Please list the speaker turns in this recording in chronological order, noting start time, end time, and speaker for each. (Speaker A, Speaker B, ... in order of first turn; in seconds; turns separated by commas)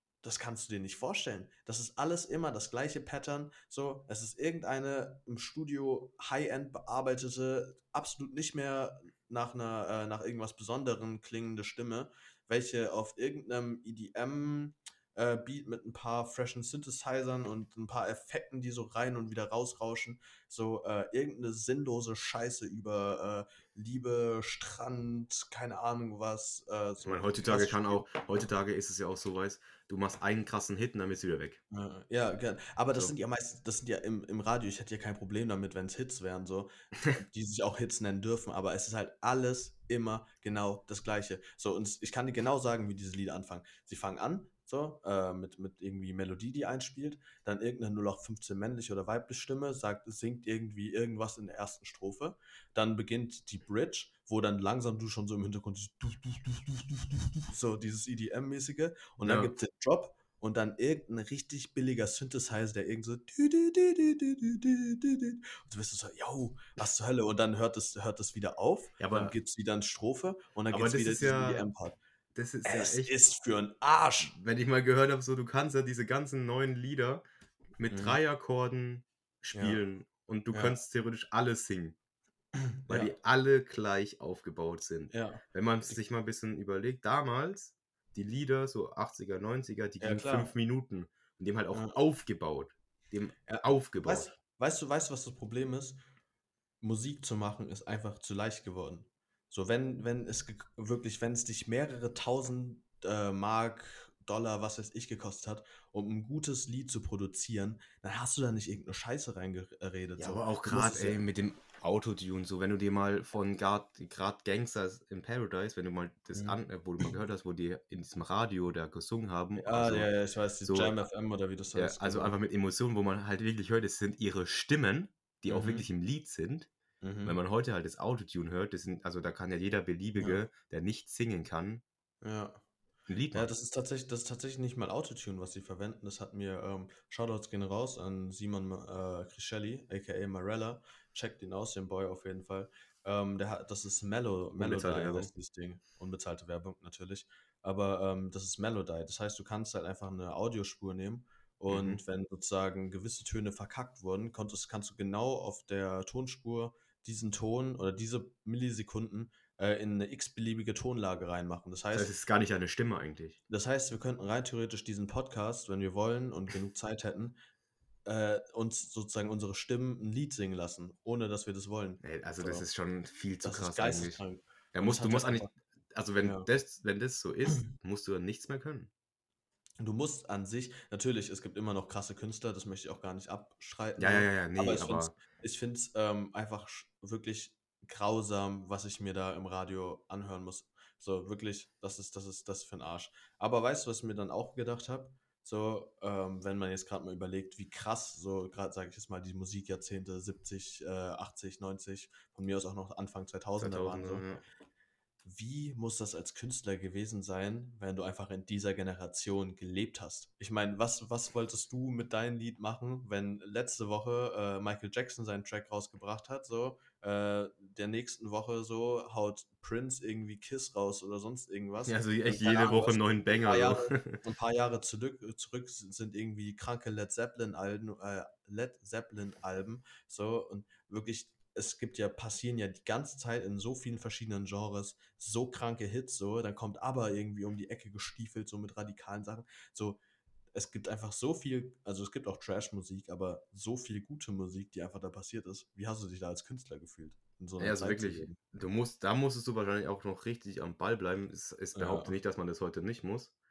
Speaker A: 0.2-28.1, Speaker B: 27.0-31.6, Speaker A: 31.7-72.0, Speaker B: 59.2-59.5, Speaker B: 69.0-69.3, Speaker B: 70.7-71.7, Speaker B: 72.3-73.2, Speaker A: 72.6-74.3, Speaker B: 74.2-77.2, Speaker B: 77.8-82.0, Speaker A: 77.9-78.2, Speaker A: 79.5-79.8, Speaker A: 80.5-80.8, Speaker A: 82.7-83.1, Speaker B: 82.9-94.3, Speaker A: 85.1-86.0, Speaker A: 90.0-90.5, Speaker A: 91.7-92.0, Speaker A: 93.5-96.0, Speaker A: 96.8-111.2, Speaker B: 110.2-120.1, Speaker A: 119.6-122.4, Speaker B: 120.6-120.9, Speaker B: 121.7-126.7, Speaker A: 125.5-125.8, Speaker A: 127.0-127.4, Speaker B: 127.2-131.8, Speaker A: 132.2-132.6, Speaker B: 133.1-133.5, Speaker A: 133.3-162.1, Speaker B: 144.6-145.3, Speaker B: 151.7-152.0, Speaker B: 161.9-163.4, Speaker A: 163.5-167.4, Speaker A: 168.0-172.7, Speaker B: 172.0-174.2, Speaker A: 173.4-175.5, Speaker B: 174.7-178.9, Speaker A: 176.2-176.5, Speaker A: 179.8-204.2, Speaker B: 184.0-185.1, Speaker B: 203.6-204.4, Speaker A: 205.2-240.0, Speaker B: 221.8-224.2, Speaker A: 240.5-248.4, Speaker B: 247.6-253.3, Speaker A: 251.7-252.2